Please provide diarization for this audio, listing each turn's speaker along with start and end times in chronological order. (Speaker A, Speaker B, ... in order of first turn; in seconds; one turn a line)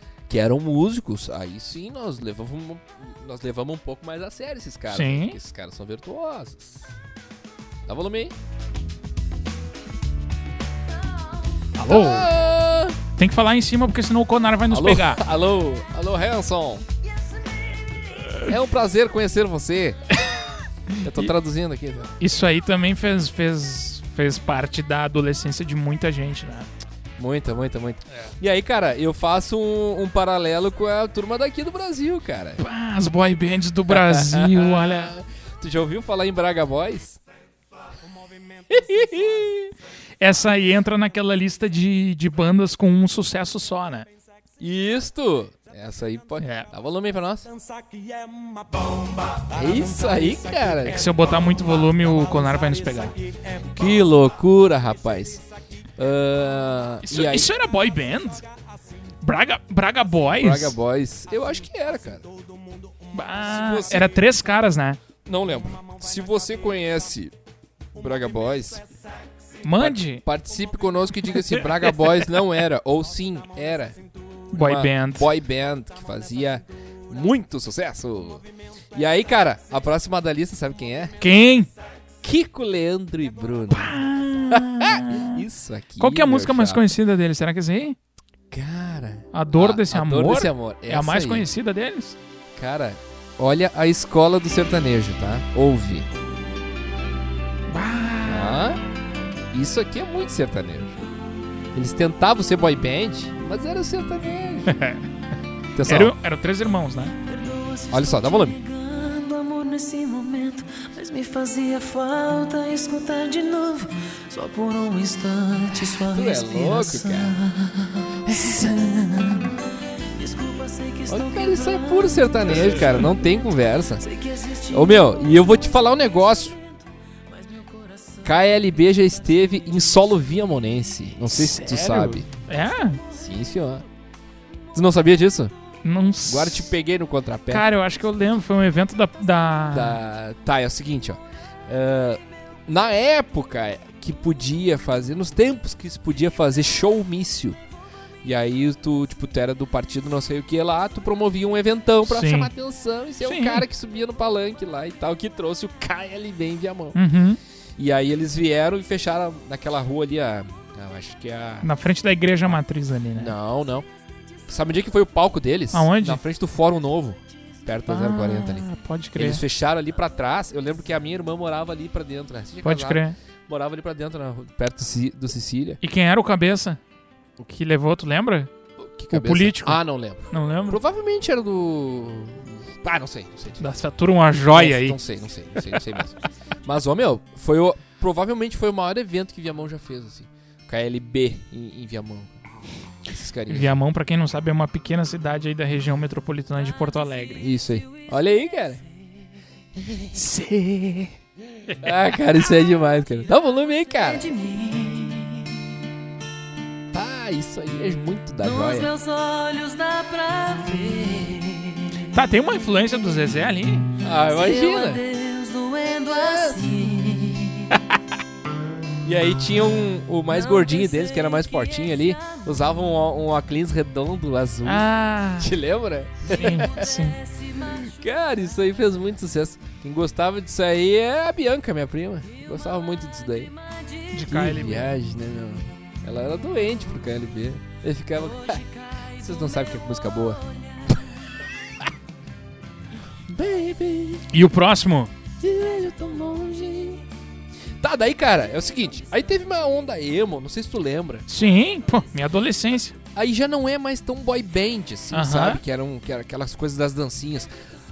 Speaker A: 0.3-6.9
Speaker B: 4.9-5.4
Speaker A: 7.9-8.3
Speaker B: 11.8-12.3
Speaker A: 11.9-13.0
Speaker B: 13.2-15.2
Speaker A: 14.7-16.9
Speaker A: 18.4-20.0
Speaker B: 20.9-21.3
Speaker A: 21.0-22.1
Speaker B: 22.2-26.7
Speaker A: 27.2-32.6
Speaker B: 32.6-35.1
Speaker A: 33.9-37.2
Speaker A: 38.7-39.7
Speaker B: 40.2-44.1
Speaker A: 44.6-47.5
Speaker B: 46.4-46.7
Speaker A: 49.4-51.1
Speaker B: 50.9-53.1
Speaker A: 53.6-55.4
Speaker A: 56.0-57.5
Speaker B: 57.0-58.4
Speaker B: 59.2-60.8
Speaker A: 60.3-62.3
Speaker B: 63.1-65.0
Speaker A: 63.5-64.1
Speaker A: 65.2-67.3
Speaker A: 68.0-68.8
Speaker B: 69.6-70.2
Speaker A: 69.8-74.0
Speaker B: 74.5-75.3
Speaker A: 74.5-81.2
Speaker B: 81.2-81.7
Speaker A: 82.2-86.8
Speaker B: 83.7-85.4
Speaker B: 86.0-88.0
Speaker A: 88.5-91.5
Speaker B: 89.3-92.2
Speaker A: 92.5-96.1
Speaker B: 97.7-98.6
Speaker A: 98.3-98.8
Speaker A: 99.5-101.1
Speaker A: 101.7-104.8
Speaker B: 104.7-105.1
Speaker A: 105.8-106.1
Speaker B: 105.8-107.2
Speaker C: 107.3-119.6
Speaker A: 107.9-108.6
Speaker A: 115.9-117.4
Speaker A: 118.3-119.3
Speaker C: 120.2-123.0
Speaker A: 121.1-124.1
Speaker C: 124.0-125.8
Speaker A: 124.7-126.6
Speaker C: 127.3-128.4
Speaker A: 128.2-132.3
Speaker B: 131.3-133.0
Speaker A: 133.1-133.8
Speaker A: 134.7-135.5
Speaker B: 135.8-136.7
Speaker A: 136.3-137.7
Speaker B: 137.5-140.0
Speaker A: 139.7-147.6
Speaker A: 148.2-157.0
Speaker B: 152.1-152.5
Speaker B: 153.2-153.7
Speaker B: 156.9-157.4
Speaker A: 157.8-161.7
Speaker B: 161.6-163.3
Speaker A: 163.2-163.9
Speaker A: 164.5-175.8
Speaker B: 165.7-166.2
Speaker B: 167.9-169.4
Speaker B: 172.6-173.2
Speaker B: 175.8-176.8
Speaker B: 177.4-178.5
Speaker A: 178.8-183.6
Speaker B: 179.1-179.8
Speaker B: 180.3-180.8
Speaker B: 183.6-185.0
Speaker A: 184.3-192.3
Speaker A: 193.0-193.7
Speaker B: 193.5-197.4
Speaker A: 197.4-198.8
Speaker A: 199.8-200.1
Speaker B: 200.1-201.2
Speaker B: 201.7-201.9
Speaker A: 201.8-204.3
Speaker C: 204.0-205.6
Speaker A: 206.9-208.9
Speaker C: 208.4-212.1
Speaker B: 212.1-213.9
Speaker A: 214.0-215.0
Speaker C: 214.1-217.8
Speaker A: 216.2-216.7
Speaker A: 219.0-224.9
Speaker C: 220.5-222.4
Speaker B: 224.7-225.6
Speaker A: 225.4-226.9
Speaker B: 226.3-227.2
Speaker C: 226.5-227.9
Speaker A: 227.6-233.5
Speaker C: 233.7-234.1
Speaker B: 234.1-234.9
Speaker A: 234.3-238.6
Speaker C: 238.4-239.1
Speaker A: 239.2-241.0
Speaker A: 243.3-244.3
Speaker B: 244.3-245.1
Speaker A: 245.4-247.0
Speaker A: 247.8-251.3
Speaker B: 251.3-253.0
Speaker A: 253.1-257.5
Speaker B: 255.1-255.6